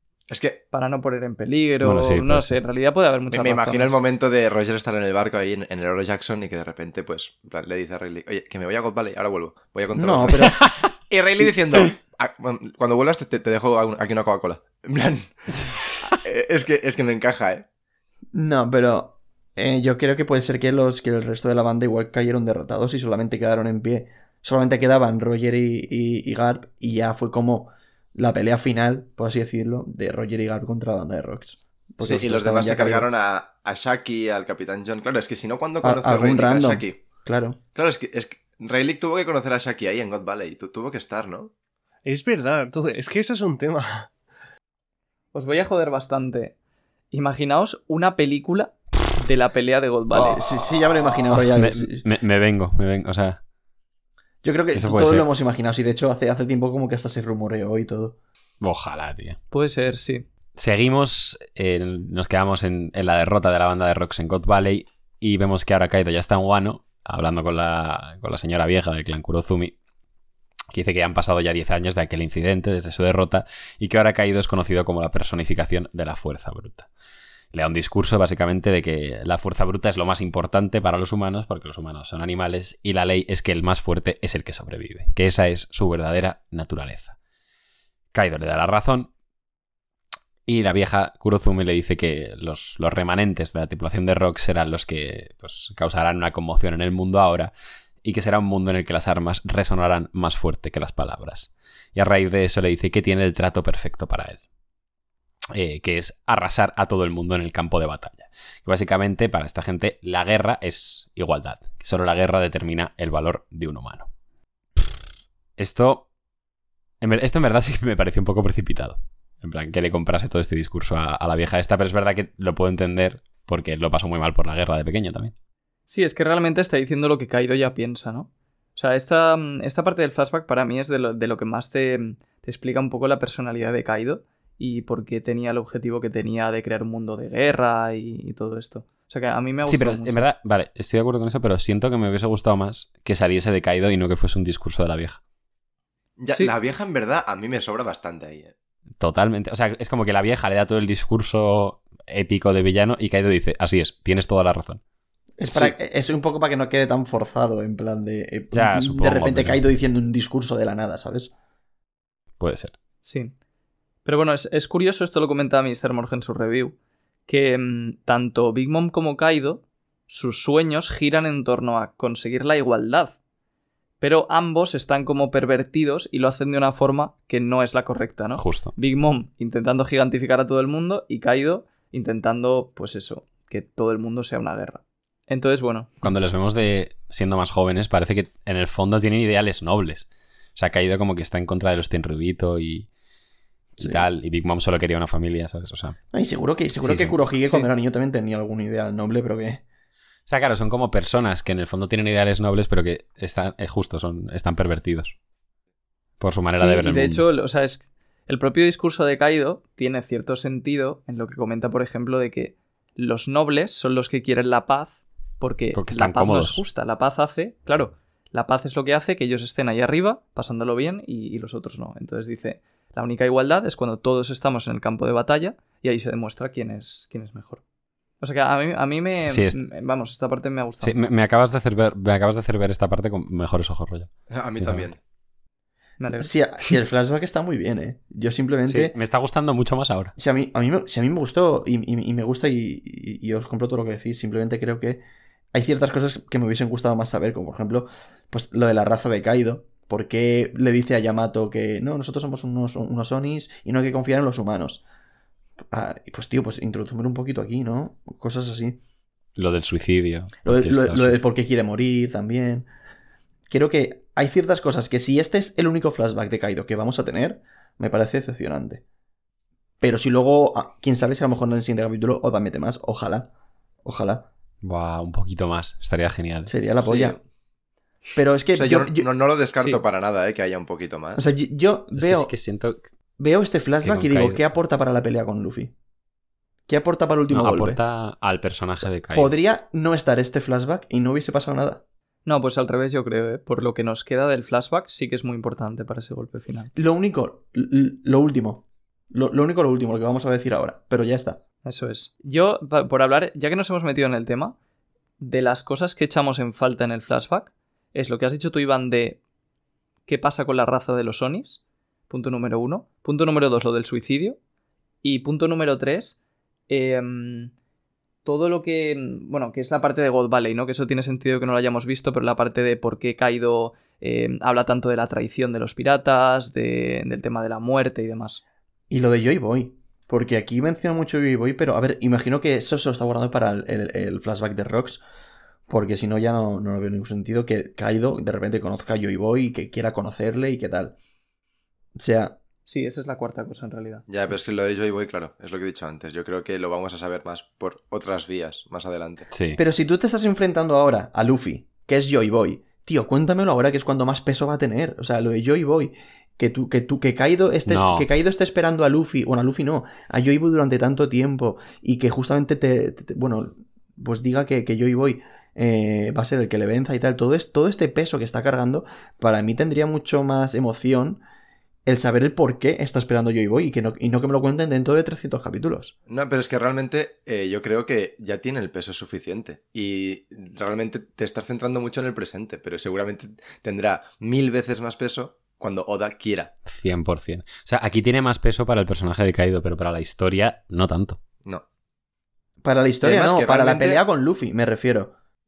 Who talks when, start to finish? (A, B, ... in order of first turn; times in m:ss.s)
0:00.3-0:00.6 A
0:00.7-0:04.0 B
0:01.8-0:02.5 C
0:03.3-0:17.7 A
0:10.0-0:10.6 D
0:18.3-0:33.1 D
0:32.0-0:37.0 A
0:35.8-0:37.6 D
0:37.8-0:41.5 A
0:42.0-0:44.1 E
0:45.3-0:46.6 B
0:47.1-0:50.4 B
0:50.2-0:52.0 D
0:51.3-0:53.4 C
0:54.4-0:58.2 D
0:54.7-0:55.3 C
0:58.6-0:59.4 C
0:59.5-1:00.3 B
1:00.6-1:09.8 C
1:10.7-1:16.9 C
1:17.5-1:27.2 C
1:28.1-1:29.1 C
1:30.5-1:37.5 C
1:38.0-1:44.4 C
1:45.5-1:54.1 C
1:55.6-1:56.1 C
1:57.0-2:05.3 C
2:05.9-2:20.2 B
2:19.7-2:25.2 C
2:26.2-2:28.5 A
2:29.0-2:34.8 C
2:35.4-2:41.3 D
2:38.5-2:39.6 C
2:42.4-2:42.8 C
2:43.0-2:43.3 B
2:44.0-2:46.8 B
2:47.3-2:53.2 B
2:54.0-3:06.1 B
2:58.4-2:58.7 C
3:06.0-3:12.9 C
3:13.8-3:16.0 C
3:13.8-3:14.1 D
3:16.1-3:19.6 D
3:16.8-3:17.6 C
3:20.3-3:25.1 C
3:26.2-3:27.2 C
3:26.6-3:47.6 B
3:35.8-3:36.6 C
3:48.2-3:51.0 B
3:49.3-3:49.6 C
3:50.8-3:54.9 C
3:54.3-3:55.0 A
3:56.0-3:56.7 B
3:56.1-3:59.0 D
3:58.7-4:00.1 C
4:00.2-4:05.0 D
4:05.5-4:14.8 D
4:15.7-4:18.8 D
4:19.4-4:21.2 C
4:20.4-4:22.7 D
4:23.5-4:28.8 D
4:29.8-4:33.3 D
4:33.8-4:34.3 D
4:34.6-4:36.5 C
4:36.5-4:37.2 D
4:36.8-4:37.2 A
4:38.2-4:39.1 D
4:38.5-4:41.2 A
4:41.2-4:42.3 D
4:42.0-4:42.8 C
4:43.2-4:45.7 D
4:43.8-4:44.4 C
4:46.7-4:47.8 D
4:47.3-4:49.3 C
4:49.2-4:51.8 D
4:52.3-4:56.7 B
4:56.8-5:01.4 D
5:01.6-5:04.6 B
5:05.2-5:09.2 B
5:10.1-5:14.4 B
5:15.0-5:16.2 B
5:16.7-5:17.5 B
5:18.2-5:28.4 B
5:28.9-5:35.0 D
5:35.7-5:41.0 D
5:42.0-5:42.4 D
5:42.7-5:44.0 B
5:44.1-5:49.3 A
5:49.3-5:49.6 C
5:49.6-6:11.2 D
5:57.7-5:58.1 C
6:11.9-6:15.9 D
6:16.1-6:26.5 A
6:26.7-6:31.2 C
6:32.6-6:35.1 D
6:33.0-6:34.0 A